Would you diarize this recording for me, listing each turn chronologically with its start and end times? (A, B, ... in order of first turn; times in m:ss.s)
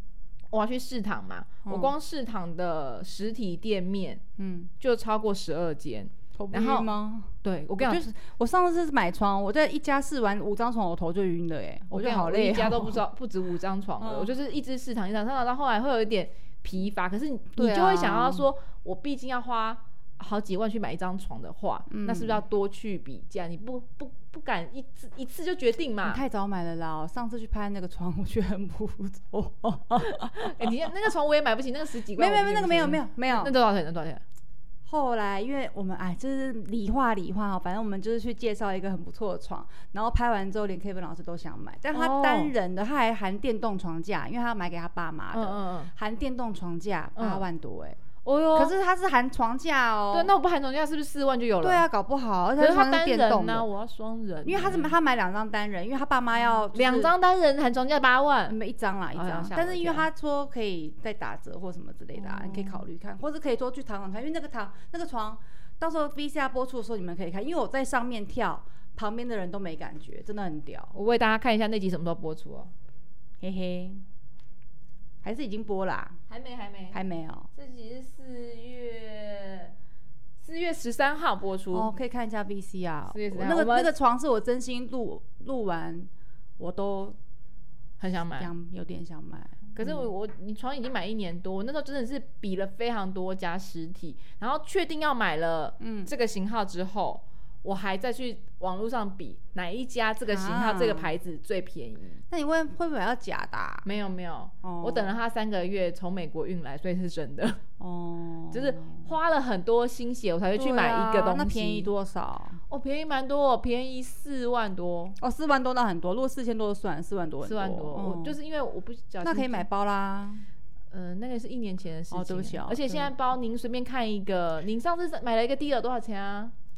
0:00.5-0:04.2 A
0:01.6-0:01.9 B
0:04.4-0:04.7 B
0:04.8-0:06.9 A
0:06.3-0:13.0 B
0:07.4-0:08.0 A
0:11.9-0:26.2 A
0:14.0-0:14.3 B
0:17.5-0:18.5 B
0:21.9-0:22.4 B
0:26.0-0:30.7 B
0:30.1-0:34.2 A
0:32.1-0:33.5 B
0:34.8-0:48.0 B
0:41.9-0:42.5 A
0:45.3-0:45.9 A
0:47.2-0:47.4 A
0:48.2-0:48.7 A
0:48.5-0:50.3 B
0:50.1-0:51.8 A
0:51.6-0:53.7 B
0:52.6-0:55.0 A
0:54.4-0:57.1 B
0:56.7-0:58.5 A
0:58.5-1:10.9 B
0:59.1-1:00.1 A
1:02.2-1:02.8 A
1:10.9-1:12.7 A
1:13.4-1:14.0 B
1:15.2-1:16.2 B
1:16.3-1:17.0 A
1:16.9-1:17.5 B
1:17.5-1:19.7 A
1:20.4-1:21.9 A
1:21.7-1:27.2 B
1:23.1-1:23.9 A
1:28.0-1:28.5 A
1:28.3-1:30.1 B
1:29.8-1:42.2 A
1:35.8-1:36.1 B
1:40.3-1:41.1 B
1:42.3-1:43.8 B
1:43.8-1:47.6 A
1:44.6-1:45.1 B
1:47.8-1:49.1 B
1:48.5-1:51.9 A
1:50.5-1:52.6 B
1:52.7-1:55.2 A
1:55.2-1:58.4 B
1:57.4-1:59.6 A
1:59.2-2:00.4 B
2:00.9-2:06.5 A
2:02.1-2:03.1 B